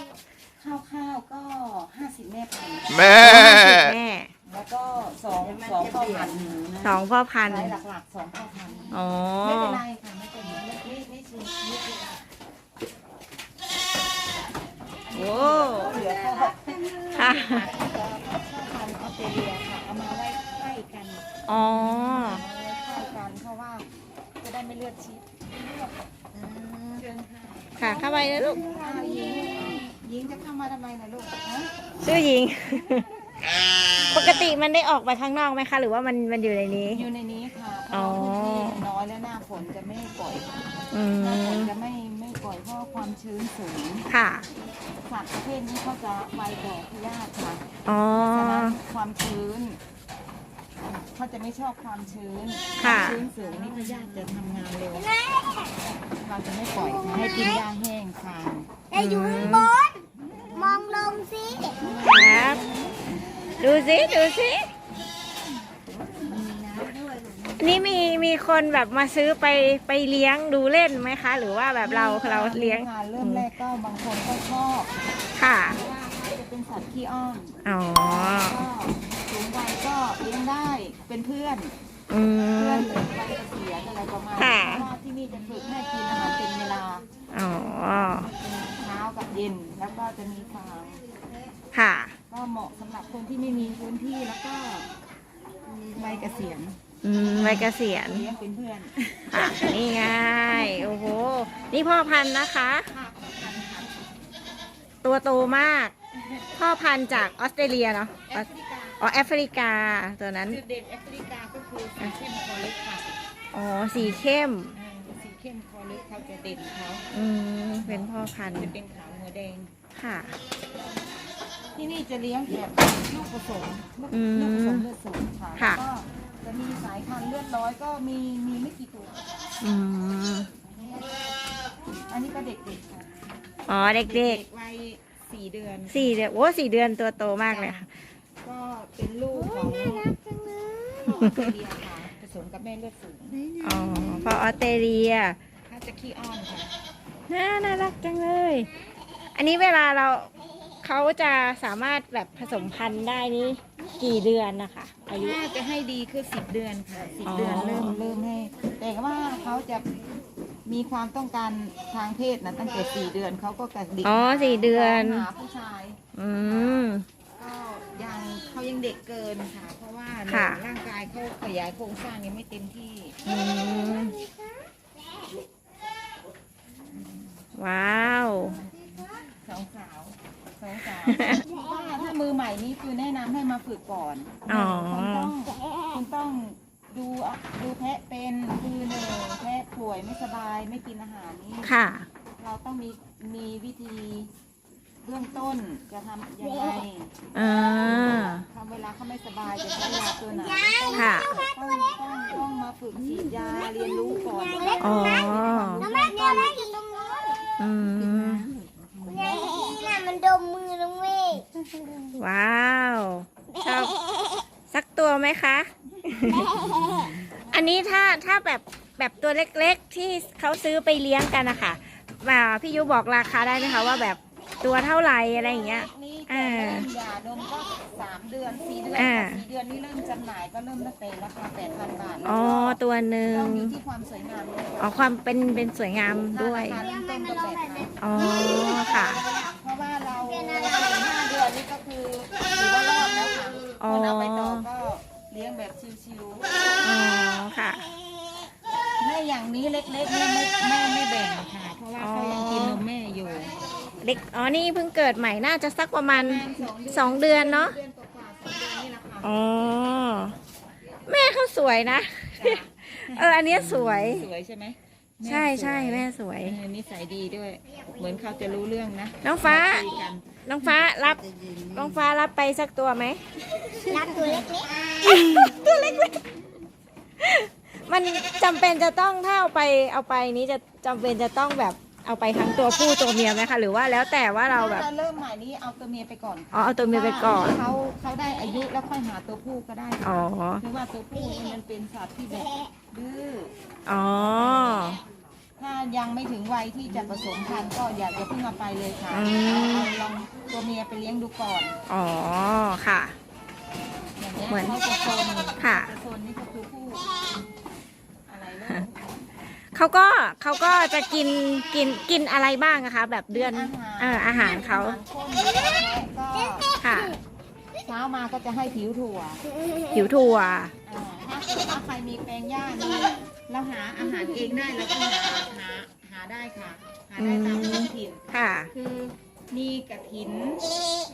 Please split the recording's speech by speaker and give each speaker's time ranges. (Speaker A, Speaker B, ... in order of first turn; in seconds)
Speaker A: 0.6-3.4, 4.4-6.9, 7.4-12.2, 15.1-23.9, 24.4-31.7, 32.7-33.1, 34.1-34.4, 36.9-44.1, 45.0-47.6, 48.1-49.8, 51.1-55.1, 56.2-58.7, 61.8-63.6, 66.0-67.2, 71.8-74.9, 75.6-81.7, 82.5-87.0, 88.7-91.0, 92.3-94.9, 95.9-99.8, 100.5-100.8, 102.9-104.0, 108.3-109.0, 110.5-113.1, 114.0-114.2, 114.7-117.1, 117.8-119.7, 121.8-129.3, 132.1-133.3, 133.9-136.1, 137.5-137.8, 138.4-140.1, 141.0-143.5, 145.7-146.7, 155.1-159.9, 160.7-173.2, 176.9-177.3, 178.7-191.7, 192.4-194.3, 195.0-197.2, 197.8-206.5, 208.9-209.4, 216.8-218.2, 225.5-235.0, 236.3-238.0, 239.2-246.5, 249.0-253.5, 256.1-259.3, 262.4-270.4, 284.5-293.5, 294.1-294.9, 295.6-301.8, 304.2-307.1, 308.3-309.1, 313.3-316.7, 317.8-319.4, 320.8-330.7
Speaker B: 3.2-4.3, 6.8-7.7, 8.9-9.8, 15.1-15.9, 17.1-17.6, 21.5-22.4, 27.8-28.6, 32.0-33.0, 34.1-37.0, 37.9-38.8, 40.9-41.7, 44.1-44.5, 47.9-48.8, 52.8-53.2, 58.9-59.7, 62.1-62.6, 63.6-64.7, 67.6-73.5, 75.3-75.8, 77.6-78.6, 82.1-82.9, 84.4-84.9, 87.3-88.3, 91.7-92.1, 97.0-98.2, 99.3-102.9, 105.0-105.9, 106.5-108.5, 109.0-110.6, 113.5-114.8, 117.1-118.7, 119.9-120.3, 124.1-124.8, 129.6-130.5, 133.7-134.4, 135.9-137.9, 141.2-141.4, 143.6-145.4, 147.3-148.7, 149.3-150.3, 150.8-155.4, 157.2-158.0, 164.0-165.2, 166.1-167.0, 170.3-170.6, 173.2-174.2, 177.5-178.6, 181.1-181.4, 184.5-185.3, 191.6-192.1, 197.3-198.4, 200.9-201.4, 204.8-205.9, 207.6-208.5, 212.1-213.9, 214.7-216.5, 217.5-226.9, 228.9-229.4, 232.2-233.7, 234.8-236.8, 238.0-239.2, 243.8-244.7, 246.8-247.9, 252.0-252.8, 254.0-257.8, 259.2-260.3, 261.1-264.3, 265.2-266.6, 269.2-269.9, 270.4-273.2, 275.0-276.2, 277.2-284.9, 286.5-287.6, 290.0-290.6, 293.9-295.0, 299.1-299.9, 301.9-303.1, 304.5-304.8, 305.6-305.9, 309.7-315.0, 316.8-317.2, 319.9-320.7, 327.2-328.7
Speaker C: 54.9-55.8, 56.9-57.6, 58.9-60.0, 60.5-61.8, 140.2-140.9, 200.7-201.5, 204.6-207.4, 209.1-211.5, 216.3-216.9, 273.8-274.8